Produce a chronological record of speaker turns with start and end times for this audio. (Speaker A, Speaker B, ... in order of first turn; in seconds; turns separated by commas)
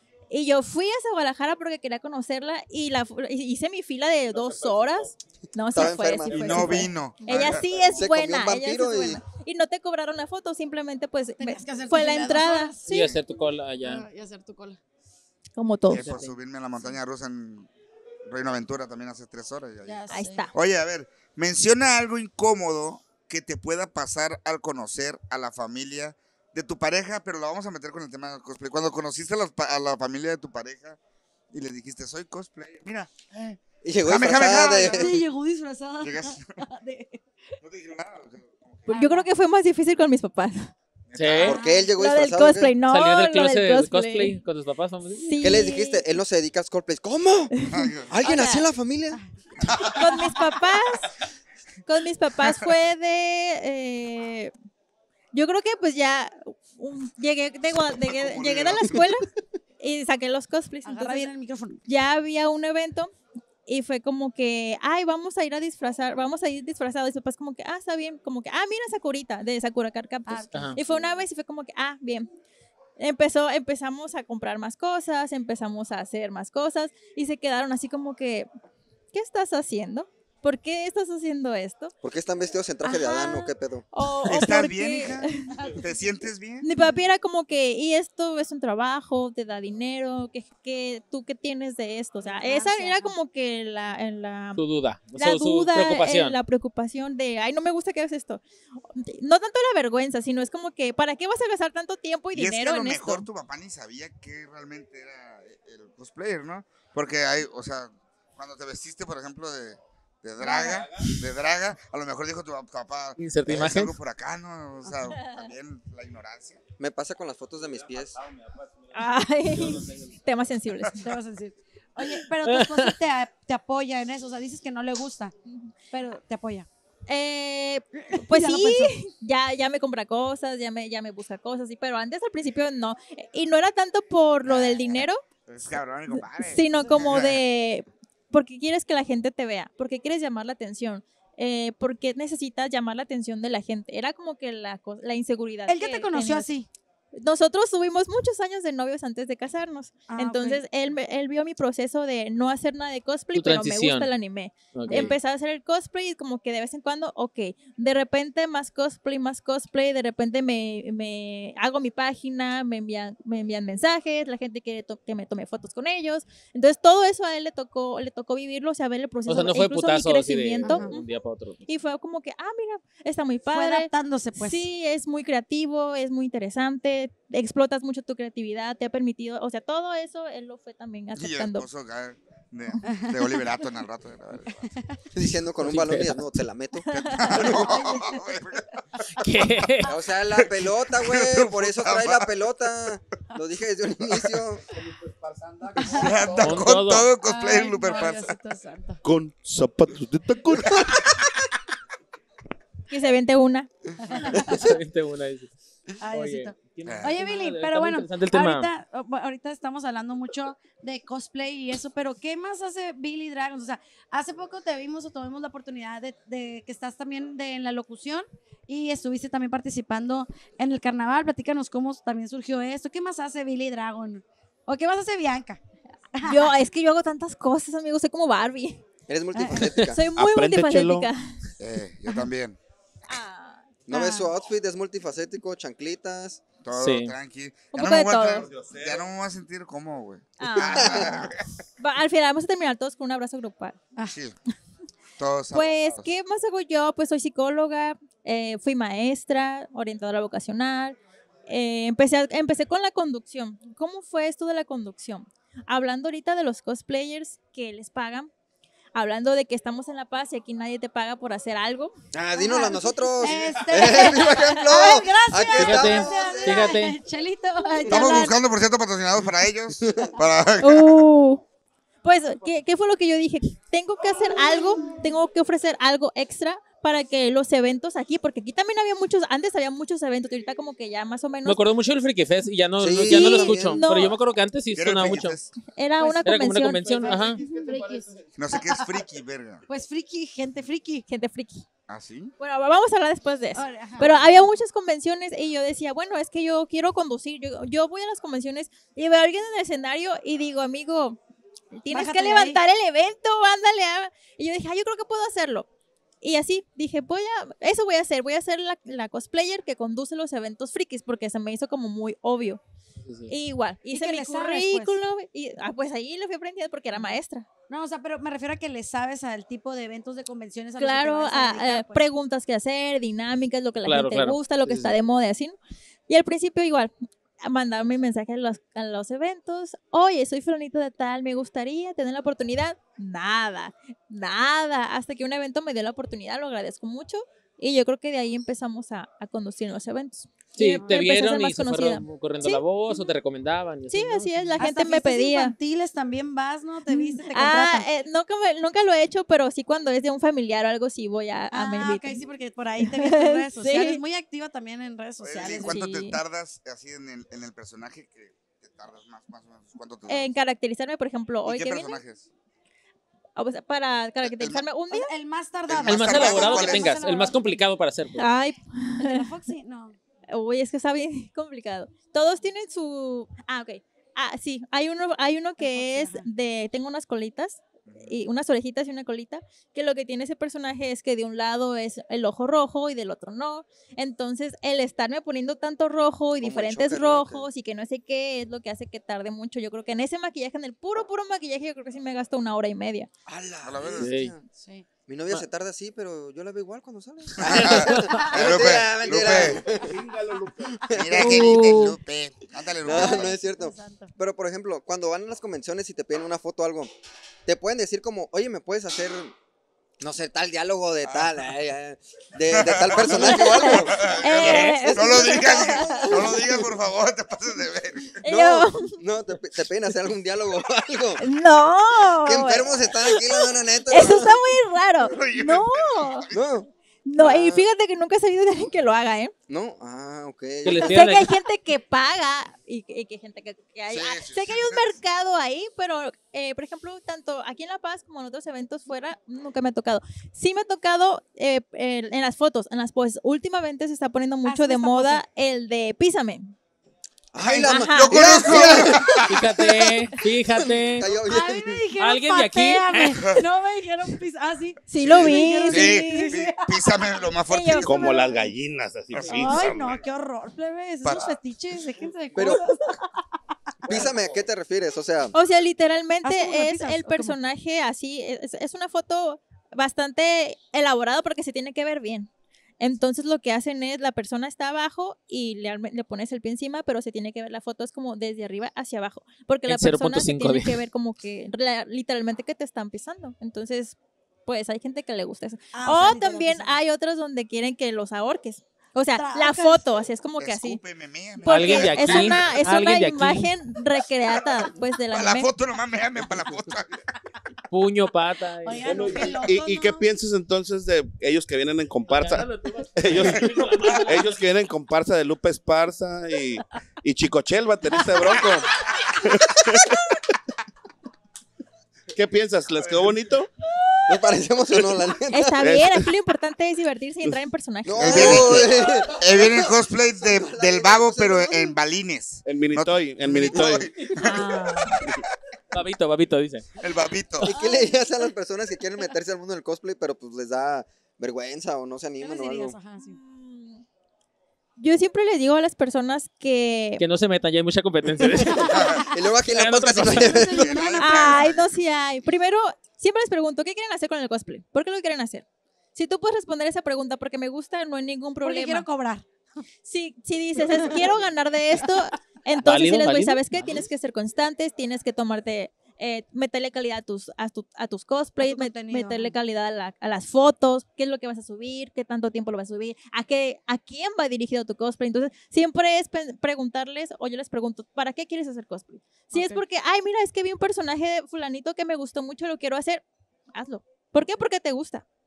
Speaker A: 0.3-12.8, Speaker B: 4.3-5.1, Speaker C: 5.7-6.8, Speaker D: 6.3-7.7, Speaker C: 7.9-9.2, Speaker E: 11.4-13.2, Speaker F: 12.8-14.1, Speaker D: 12.9-13.2, Speaker E: 13.8-14.8, Speaker A: 15.6-16.1, Speaker D: 15.9-17.7, Speaker F: 15.9-16.4, Speaker D: 18.2-20.0, Speaker E: 19.8-20.5, Speaker A: 20.1-20.5, Speaker D: 20.5-31.0, Speaker D: 31.5-35.2, Speaker C: 33.8-35.2, Speaker E: 34.4-37.2, Speaker D: 36.0-36.6, Speaker D: 37.6-38.9, Speaker E: 38.9-39.3, Speaker A: 38.9-40.7, Speaker D: 41.1-41.6, Speaker F: 41.1-41.6, Speaker E: 41.5-41.9, Speaker C: 41.5-42.7, Speaker A: 41.9-44.4, Speaker F: 42.8-45.2, Speaker A: 45.1-46.0, Speaker C: 45.4-47.5, Speaker A: 47.6-48.7, Speaker D: 47.7-48.1, Speaker C: 48.1-49.2, Speaker D: 49.6-49.9, Speaker A: 49.9-51.1, Speaker E: 50.0-50.4, Speaker A: 51.9-54.5, Speaker A: 55.3-59.2, Speaker D: 58.0-59.1, Speaker A: 59.8-61.3, Speaker E: 60.8-61.8, Speaker A: 61.8-63.1, Speaker A: 63.6-72.3, Speaker E: 70.3-70.7, Speaker B: 70.8-71.2, Speaker A: 73.0-78.5, Speaker A: 79.1-81.9, Speaker C: 82.0-83.8, Speaker A: 82.8-85.5, Speaker D: 84.2-86.7, Speaker E: 85.5-85.9, Speaker A: 86.6-94.6, Speaker E: 92.2-93.1, Speaker F: 94.5-96.4, Speaker A: 95.1-103.3, Speaker D: 102.3-116.6, Speaker B: 110.5-111.2, Speaker F: 113.2-114.0, Speaker E: 114.8-115.1, Speaker C: 116.8-118.2, Speaker B: 117.6-120.2, Speaker A: 118.9-121.1, Speaker E: 121.0-125.3, Speaker F: 122.4-123.0, Speaker A: 125.4-125.7, Speaker E: 125.9-126.7, Speaker A: 127.1-135.2, Speaker E: 128.0-129.0, Speaker D: 134.4-137.4, Speaker A: 136.1-146.5, Speaker E: 136.8-137.2, Speaker E: 145.7-146.7, Speaker A: 147.2-171.0, Speaker E: 150.1-150.6, Speaker F: 153.3-154.1, Speaker F: 154.7-155.2, Speaker F: 169.3-171.6, Speaker E: 170.6-171.0, Speaker A: 171.7-181.7, Speaker E: 173.5-174.7, Speaker D: 181.2-184.7, Speaker E: 182.8-183.3, Speaker E: 184.5-184.9, Speaker C: 185.1-187.6, Speaker F: 185.6-186.2, Speaker D: 186.9-188.8, Speaker E: 187.5-188.3, Speaker F: 189.2-189.9, Speaker C: 189.8-194.6, Speaker D: 190.9-192.3, Speaker B: 194.7-196.6, Speaker E: 195.8-196.1, Speaker D: 195.9-198.3, Speaker F: 196.3-197.1, Speaker E: 197.2-199.0, Speaker B: 199.0-201.0, Speaker D: 200.7-201.0, Speaker A: 202.9-203.7, Speaker E: 204.1-204.5, Speaker F: 204.3-205.5, Speaker E: 206.0-225.6, Speaker F: 206.1-208.7, Speaker D: 206.8-207.2, Speaker A: 226.2-228.8, Speaker E: 226.2-226.5, Speaker C: 229.1-230.0, Speaker E: 229.3-229.7, Speaker A: 229.9-231.4, Speaker B: 230.2-231.1, Speaker D: 231.6-232.6, Speaker A: 233.1-233.7, Speaker C: 233.9-236.4, Speaker E: 233.9-234.3, Speaker D: 236.6-241.4, Speaker F: 236.8-237.1, Speaker A: 237.7-238.5, Speaker B: 238.3-239.1, Speaker A: 240.4-243.8, Speaker C: 240.8-241.1, Speaker D: 244.1-244.3, Speaker D: 245.2-246.1, Speaker A: 245.5-258.3, Speaker A: 258.9-261.9, Speaker C: 262.1-266.8, Speaker E: 262.3-268.4, Speaker A: 264.3-264.9, Speaker F: 265.4-267.0, Speaker D: 267.9-271.0, Speaker C: 269.8-270.1, Speaker A: 270.6-271.4, Speaker A: 272.0-281.6, Speaker F: 281.4-285.4, Speaker C: 282.8-283.8, Speaker A: 283.0-284.1, Speaker D: 284.7-285.5, Speaker A: 285.6-287.1, Speaker F: 286.0-287.4, Speaker B: 286.8-288.5, Speaker E: 286.9-288.9, Speaker D: 288.4-289.6, Speaker E: 289.7-291.1, Speaker A: 291.1-291.6, Speaker D: 291.9-292.3, Speaker A: 292.4-301.2, Speaker E: 293.5-294.4, Speaker A: 301.8-305.7, Speaker E: 301.9-302.6, Speaker A: 306.2-312.6, Speaker F: 313.1-313.3, Speaker A: 313.3-317.5, Speaker E: 313.9-315.0, Speaker E: 317.7-322.0, Speaker A: 320.8-325.6, Speaker F: 323.8-324.4, Speaker A: 326.1-343.1, Speaker F: 340.5-344.5, Speaker A: 343.9-345.5, Speaker E: 344.6-347.9, Speaker A: 346.9-352.2, Speaker E: 351.5-355.8, Speaker A: 352.8-354.0, Speaker D: 355.2-360.3, Speaker A: 355.4-356.2, Speaker A: 360.1-362.0, Speaker D: 361.4-362.3, Speaker A: 363.4-365.1, Speaker D: 364.2-364.6, Speaker E: 364.9-367.6, Speaker D: 365.7-367.0, Speaker F: 365.8-368.3, Speaker A: 368.1-369.3, Speaker E: 369.0-370.0, Speaker A: 370.3-393.1, Speaker E: 375.6-376.2, Speaker D: 377.9-378.2, Speaker C: 386.4-387.5, Speaker C: 393.2-394.4, Speaker D: 393.6-394.1, Speaker F: 394.0-394.3, Speaker E: 394.5-394.9, Speaker C: 395.1-400.0, Speaker D: 397.4-399.6, Speaker F: 397.7-398.2, Speaker B: 398.7-401.1, Speaker C: 400.8-401.5, Speaker D: 400.9-403.4, Speaker A: 401.2-402.0, Speaker C: 402.8-406.9, Speaker E: 402.9-404.1, Speaker C: 407.4-409.3, Speaker C: 410.0-414.1, Speaker D: 411.0-411.3, Speaker D: 412.5-418.2, Speaker A: 413.2-416.1, Speaker F: 414.3-415.2, Speaker C: 415.4-416.6, Speaker A: 418.2-418.9, Speaker C: 418.2-421.2, Speaker A: 421.2-426.3, Speaker C: 422.2-424.3, Speaker D: 423.9-424.3, Speaker D: 425.0-426.4, Speaker C: 426.3-427.6, Speaker A: 427.1-429.3, Speaker C: 429.5-431.0, Speaker F: 430.6-431.3, Speaker A: 430.8-446.5, Speaker D: 433.9-435.0, Speaker E: 444.4-445.2, Speaker C: 447.3-449.5, Speaker D: 447.4-449.5, Speaker A: 447.5-448.8, Speaker F: 449.3-451.1, Speaker C: 450.6-451.8, Speaker E: 451.1-457.0, Speaker F: 452.0-453.2, Speaker A: 454.9-456.3, Speaker D: 455.0-457.9, Speaker A: 457.5-458.2, Speaker B: 457.8-459.7, Speaker E: 458.0-458.4, Speaker D: 459.1-460.0, Speaker E: 459.3-463.2, Speaker D: 461.0-461.4, Speaker C: 462.3-462.6, Speaker C: 463.9-465.3, Speaker A: 465.3-490.8, Speaker E: 466.2-467.4, Speaker F: 479.7-480.8, Speaker E: 485.7-486.8, Speaker E: 489.1-489.8, Speaker D: 490.4-492.6, Speaker A: 491.4-495.5, Speaker F: 491.4-493.5, Speaker D: 495.1-497.0, Speaker F: 497.7-499.2, Speaker E: 498.6-500.1, Speaker B: 498.7-503.5, Speaker F: 502.0-504.4, Speaker B: 504.0-509.9, Speaker E: 507.9-508.2, Speaker B: 512.1-513.5, Speaker D: 512.8-513.1, Speaker C: 514.1-515.6, Speaker A: 515.3-518.7, Speaker B: 515.6-516.0, Speaker C: 517.9-521.7, Speaker D: 517.9-524.9, Speaker B: 522.4-523.9, Speaker A: 524.2-525.0, Speaker F: 525.7-526.7, Speaker D: 526.8-527.5, Speaker C: 527.4-532.8, Speaker E: 527.5-528.1, Speaker E: 532.2-533.2, Speaker A: 533.0-533.8, Speaker A: 534.8-537.0, Speaker F: 537.0-540.5, Speaker E: 538.5-539.1, Speaker C: 539.0-540.9, Speaker E: 540.2-541.4, Speaker D: 540.4-541.8, Speaker A: 541.0-548.9, Speaker E: 548.4-549.2, Speaker A: 549.8-575.0, Speaker E: 550.6-551.1, Speaker F: 552.6-553.8, Speaker E: 558.4-559.3, Speaker E: 569.3-569.6